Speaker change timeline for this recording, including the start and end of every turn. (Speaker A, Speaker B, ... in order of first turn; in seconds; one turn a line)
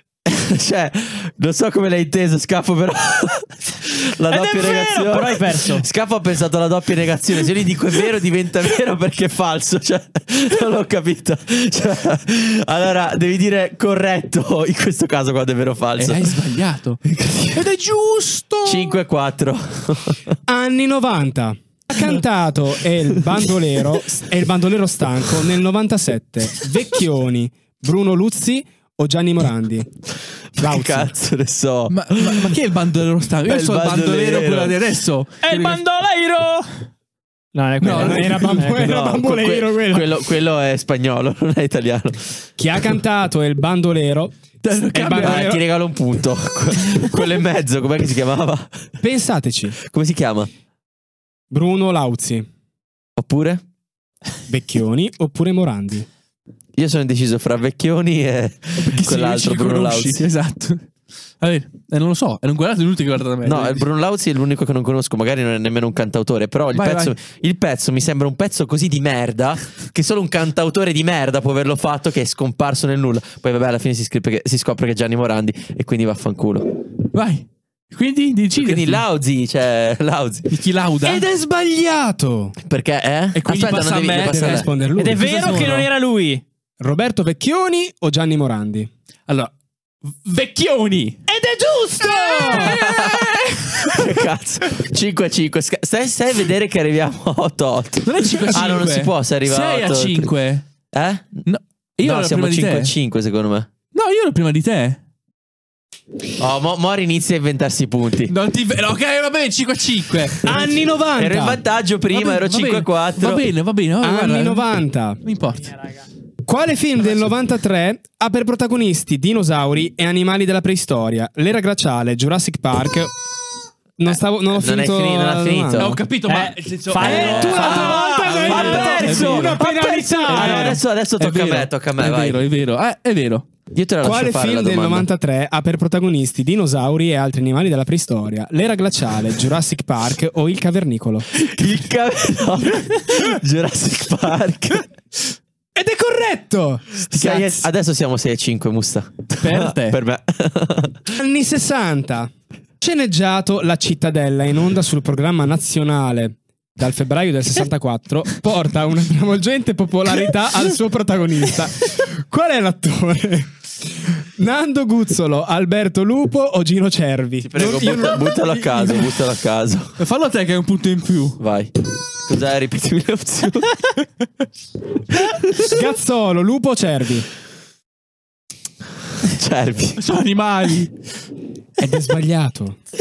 Speaker A: 0.2-16.4
Speaker B: 4.3-5.9
Speaker C: 16.0-19.0
Speaker A: 17.1-17.6
Speaker A: 18.6-20.4
Speaker D: 20.5-29.9
Speaker A: 30.6-32.6
Speaker D: 30.6-31.1
Speaker C: 31.9-35.8
Speaker A: 33.5-34.8
Speaker B: 35.4-36.8
Speaker B: 37.5-38.9
Speaker C: 37.8-38.9
Speaker D: 37.9-40.1
Speaker A: 38.6-42.5
Speaker D: 42.6-44.4
Speaker C: 44.6-45.5
Speaker D: 44.9-45.6
Speaker A: 45.2-48.9
Speaker D: 49.0-49.8
Speaker A: 49.8-50.5
Speaker D: 51.5-52.5
Speaker A: 53.2-53.6
Speaker D: 54.5-56.1
Speaker A: 56.8-60.2
Speaker C: 58.8-60.9
Speaker C: 61.4-63.9
Speaker A: 63.5-76.7
Speaker C: 66.7-67.2
Speaker C: 77.1-79.0
Speaker A: 78.6-80.5
Speaker C: 80.5-81.3
Speaker D: 81.0-82.6
Speaker A: 82.6-84.7
Speaker C: 83.3-84.7
Speaker D: 84.2-85.9
Speaker B: 85.0-86.4
Speaker D: 86.8-88.9
Speaker C: 90.1-91.2
Speaker D: 91.3-92.8
Speaker C: 92.0-94.3
Speaker A: 92.5-100.3
Speaker C: 98.0-100.6
Speaker A: 100.9-101.5
Speaker C: 101.5-102.9
Speaker A: 102.0-103.7
Speaker C: 103.9-105.0
Speaker A: 106.4-108.3
Speaker C: 108.3-110.5
Speaker D: 110.5-111.6
Speaker A: 111.2-113.5
Speaker C: 112.1-114.7
Speaker D: 114.0-115.2
Speaker C: 115.2-115.7
Speaker B: 115.8-116.0
Speaker D: 116.5-123.1
Speaker D: 124.0-126.0
Speaker A: 124.5-126.0
Speaker C: 125.8-129.6
Speaker B: 126.3-128.1
Speaker D: 127.0-130.8
Speaker A: 127.0-132.4
Speaker C: 130.3-133.5
Speaker A: 133.7-135.1
Speaker D: 134.0-141.3
Speaker A: 141.4-144.9
Speaker D: 145.8-147.7
Speaker A: 147.1-151.2
Speaker C: 149.4-150.0
Speaker D: 151.2-169.0
Speaker A: 167.4-170.0
Speaker C: 170.0-171.4
Speaker A: 171.4-171.7
Speaker A: 172.2-173.8
Speaker A: 175.1-175.8
Speaker D: 175.6-177.3
Speaker A: 179.2-180.0
Speaker C: 180.0-180.9
Speaker D: 181.8-182.8